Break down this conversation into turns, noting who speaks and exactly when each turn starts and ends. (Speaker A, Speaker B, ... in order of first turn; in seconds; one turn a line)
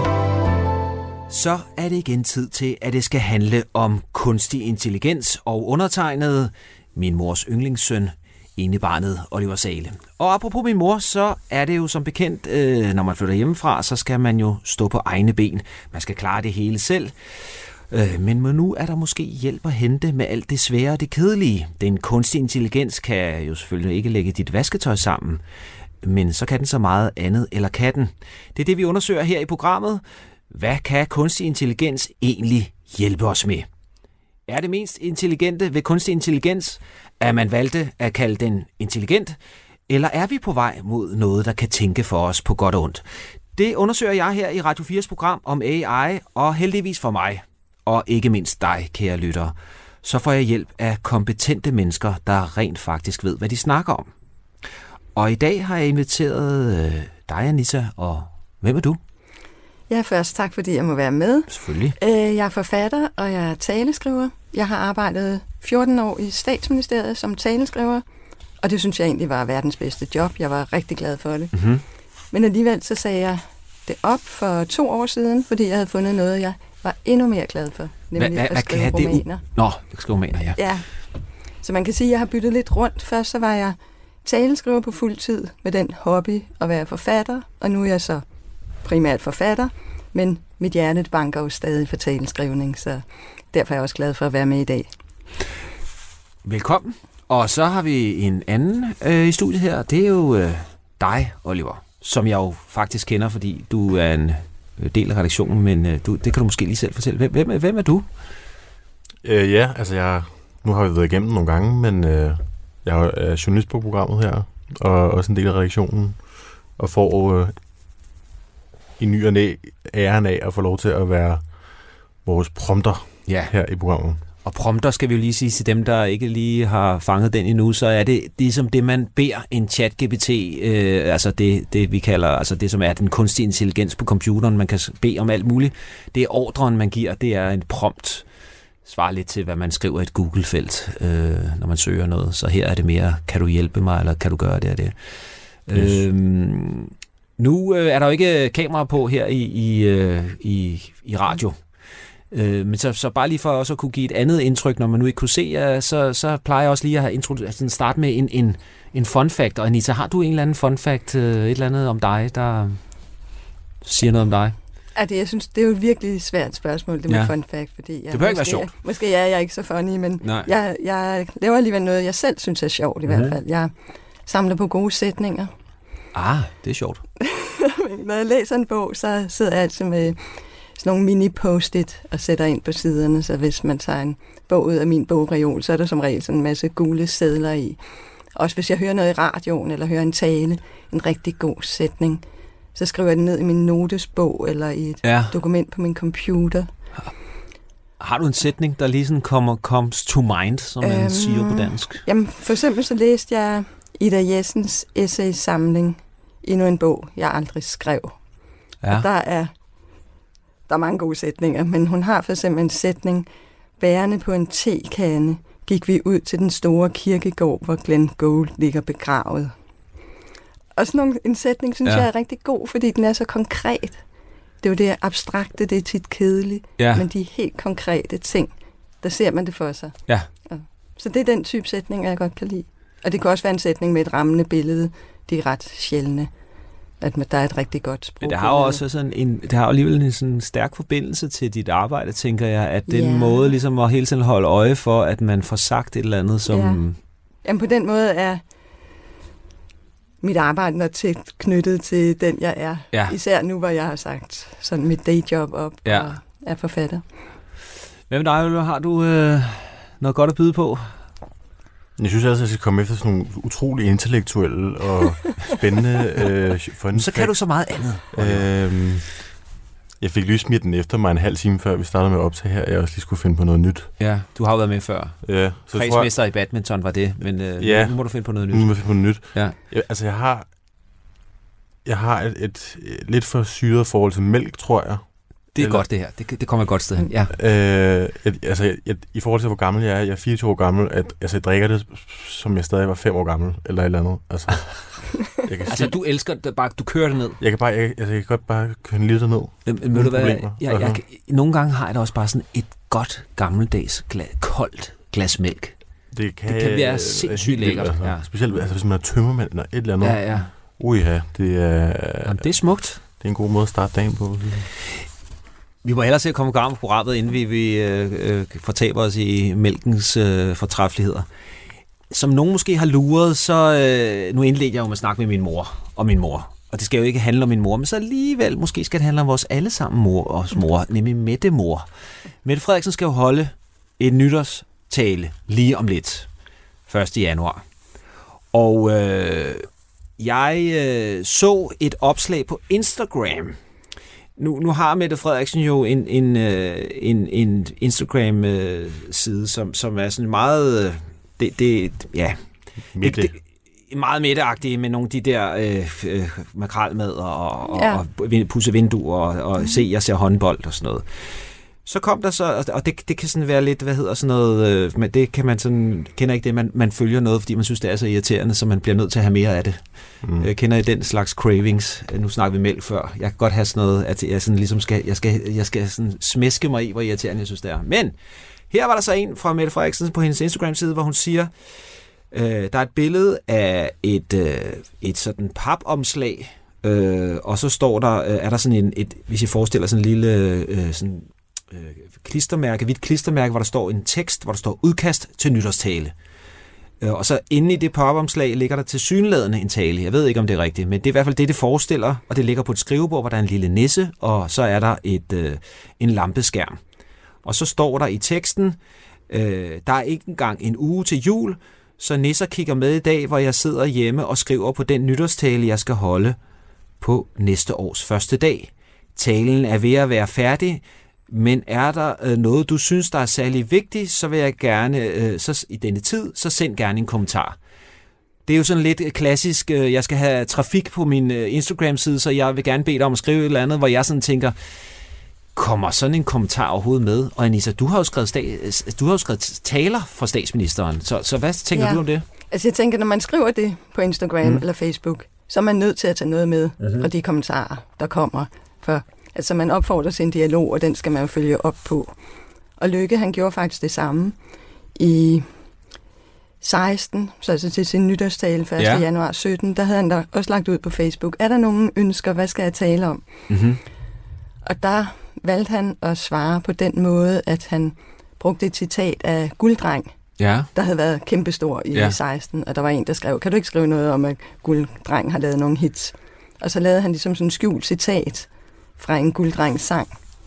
Speaker A: 1.3-25.4
Speaker A: 26.0-33.7
Speaker A: 34.5-39.4
Speaker A: 39.9-43.0
Speaker A: 43.5-54.1
Speaker A: 55.1-59.0
Speaker B: 59.9-68.0
Speaker A: 61.5-62.0
Speaker B: 68.6-71.5
Speaker A: 71.5-71.8
Speaker B: 72.3-79.4
Speaker A: 78.2-80.6
Speaker B: 80.5-80.9
Speaker B: 81.6-88.2
Speaker B: 88.8-94.9
Speaker A: 96.4-108.0
Speaker C: 109.2-116.2
Speaker C: 116.8-117.5
Speaker C: 119.0-121.5
Speaker C: 122.2-124.2
Speaker A: 123.3-123.5
Speaker A: 124.4-138.2
Speaker A: 138.8-151.8
Speaker C: 145.7-146.0
Speaker A: 152.3-162.8
Speaker A: 163.8-164.5
Speaker B: 164.9-173.7
Speaker A: 168.1-168.7
Speaker A: 170.2-170.5
Speaker A: 173.1-173.4
Speaker B: 174.2-175.5
Speaker A: 176.1-177.0
Speaker B: 177.2-187.8
Speaker B: 188.3-192.2
Speaker B: 192.7-196.7
Speaker A: 195.0-195.3
Speaker A: 198.0-202.0
Speaker B: 200.8-208.2
Speaker A: 208.8-209.1
Speaker B: 208.9-209.5
Speaker B: 210.7-213.3
Speaker B: 213.8-219.5
Speaker B: 220.7-224.0
Speaker B: 224.6-236.3
Speaker A: 226.8-227.0
Speaker B: 237.0-238.8
Speaker A: 238.2-246.9
Speaker B: 242.9-243.5
Speaker B: 246.5-246.8
Speaker B: 247.4-248.4
Speaker B: 250.2-257.0
Speaker A: 255.8-256.1
Speaker A: 258.1-261.0
Speaker C: 262.0-267.4
Speaker A: 266.9-268.4
Speaker C: 268.1-269.1
Speaker C: 270.0-273.9
Speaker A: 274.0-279.6
Speaker C: 275.2-276.1
Speaker C: 277.6-280.5
Speaker C: 281.8-285.0
Speaker A: 285.5-287.3
Speaker C: 285.6-285.9
Speaker C: 287.3-295.9
Speaker A: 295.7-297.4
Speaker C: 297.4-301.0
Speaker A: 299.6-305.8
Speaker C: 306.1-312.5
Speaker A: 306.5-308.3
Speaker A: 310.0-310.5
Speaker A: 312.2-313.0
Speaker C: 313.2-314.7
Speaker A: 315.8-321.2
Speaker A: 322.1-331.8
Speaker A: 332.4-336.3
Speaker A: 336.9-337.6
Speaker A: 338.5-339.7
Speaker A: 340.2-343.6
Speaker A: 344.4-352.4
Speaker C: 352.9-353.3
Speaker A: 352.9-353.4
Speaker A: 353.9-378.1
Speaker B: 357.7-358.0
Speaker C: 370.2-370.5
Speaker A: 378.7-396.1
Speaker A: 397.0-406.8
Speaker A: 407.4-408.8
Speaker A: 409.3-416.4
Speaker A: 417.0-427.6
Speaker A: 428.4-434.7
Speaker A: 435.6-442.2
Speaker B: 441.7-452.1
Speaker A: 446.8-447.1
Speaker B: 452.8-454.4
Speaker B: 454.9-455.4
Speaker B: 456.6-463.2
Speaker A: 458.8-459.0
Speaker A: 463.5-463.8
Speaker B: 464.6-470.1
Speaker A: 470.4-470.7
Speaker B: 470.7-480.2